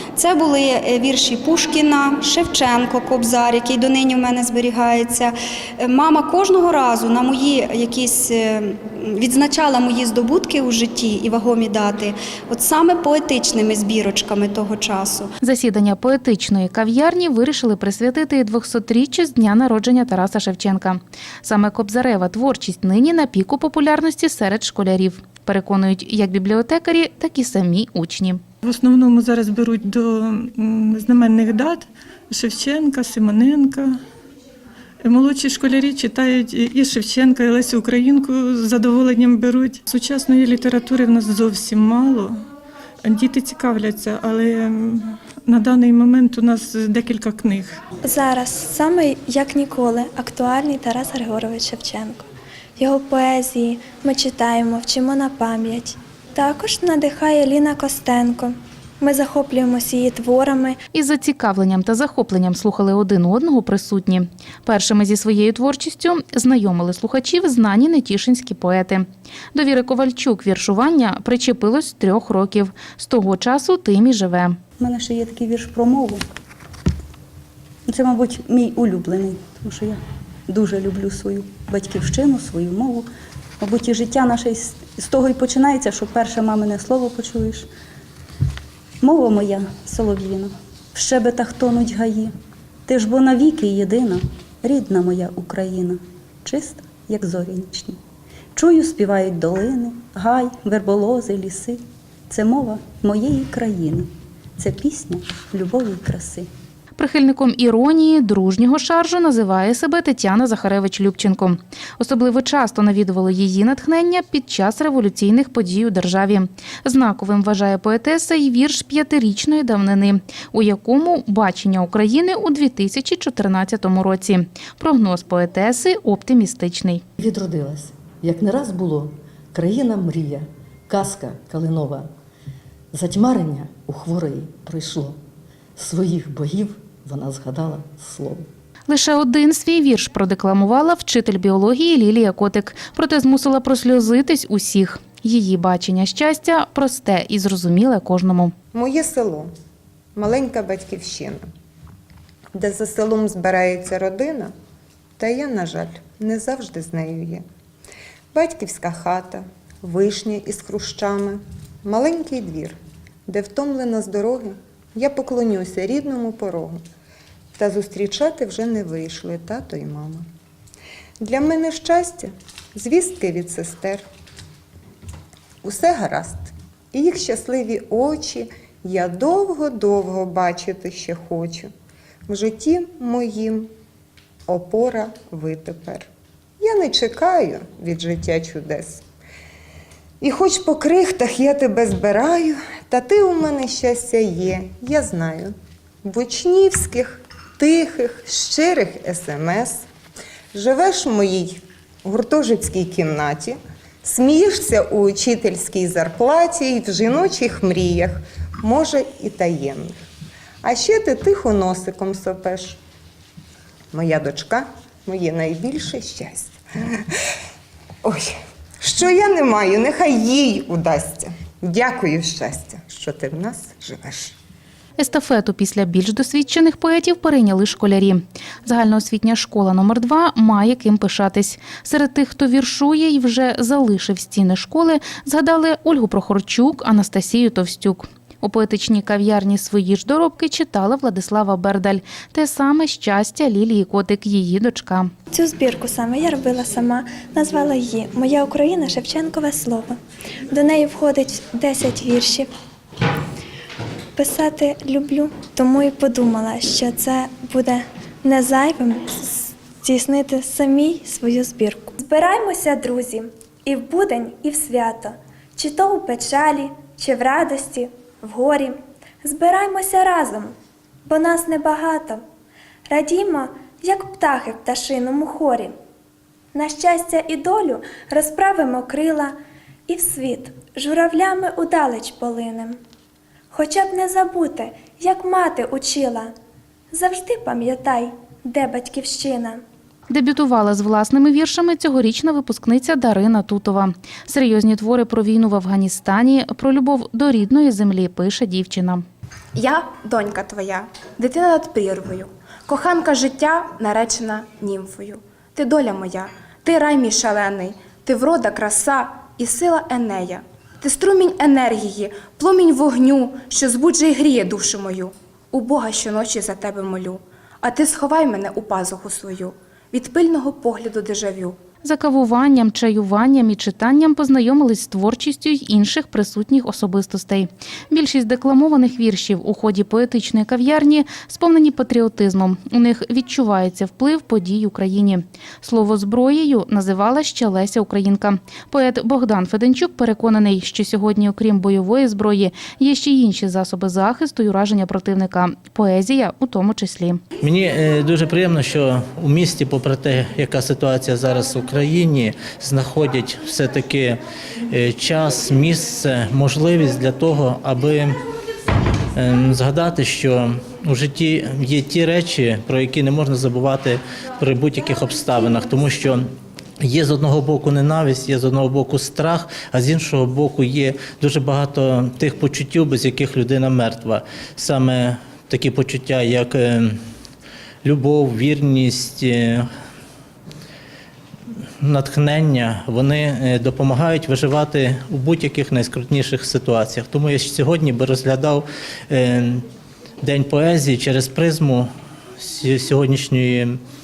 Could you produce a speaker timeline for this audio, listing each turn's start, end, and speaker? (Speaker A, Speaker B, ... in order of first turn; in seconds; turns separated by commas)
Speaker A: 0.1-15.3, Speaker B: 15.4-28.4, Speaker C: 28.6-34.0, Speaker C: 35.0-42.4, Speaker C: 43.0-47.8, Speaker D: 48.0-52.2, Speaker D: 52.8-60.8, Speaker B: 60.9-74.6, Speaker E: 74.8-76.2, Speaker E: 77.9-83.0, Speaker E: 83.6-87.7, Speaker E: 89.0-92.3, Speaker E: 92.9-98.0, Speaker E: 98.5-106.5, Speaker B: 107.0-127.0, Speaker F: 127.2-132.1, Speaker F: 132.9-135.2, Speaker F: 135.8-138.5, Speaker B: 138.9-148.5, Speaker G: 148.7-149.5, Speaker G: 150.2-151.4, Speaker G: 152.5-154.5, Speaker G: 155.2-157.4, Speaker G: 158.3-162.8, Speaker G: 163.3-166.8, Speaker G: 167.6-170.2, Speaker G: 171.2-174.0, Speaker G: 175.6-181.7, Speaker G: 182.3-183.7, Speaker G: 184.5-186.1, Speaker G: 186.6-189.0, Speaker G: 190.2-195.5, Speaker G: 196.0-199.8, Speaker G: 200.5-210.0, Speaker G: 210.6-212.8, Speaker G: 213.9-217.0, Speaker G: 218.0-224.3, Speaker B: 225.0-245.1, Speaker D: 245.3-250.0, Speaker D: 250.5-252.5, Speaker D: 254.2-270.5, Speaker D: 271.1-272.2, Speaker D: 272.9-275.7, Speaker D: 276.5-279.3, Speaker D: 279.9-282.8, Speaker D: 283.5-286.3, Speaker D: 286.9-289.6, Speaker B: 290.1-299.0, Speaker H: 299.6-321.6, Speaker B: 321.8-347.2, Speaker I: 347.4-358.2, Speaker I: 359.1-366.2, Speaker I: 366.8-377.0, Speaker I: 377.8-379.6, Speaker I: 381.8-389.6, Speaker I: 390.2-393.8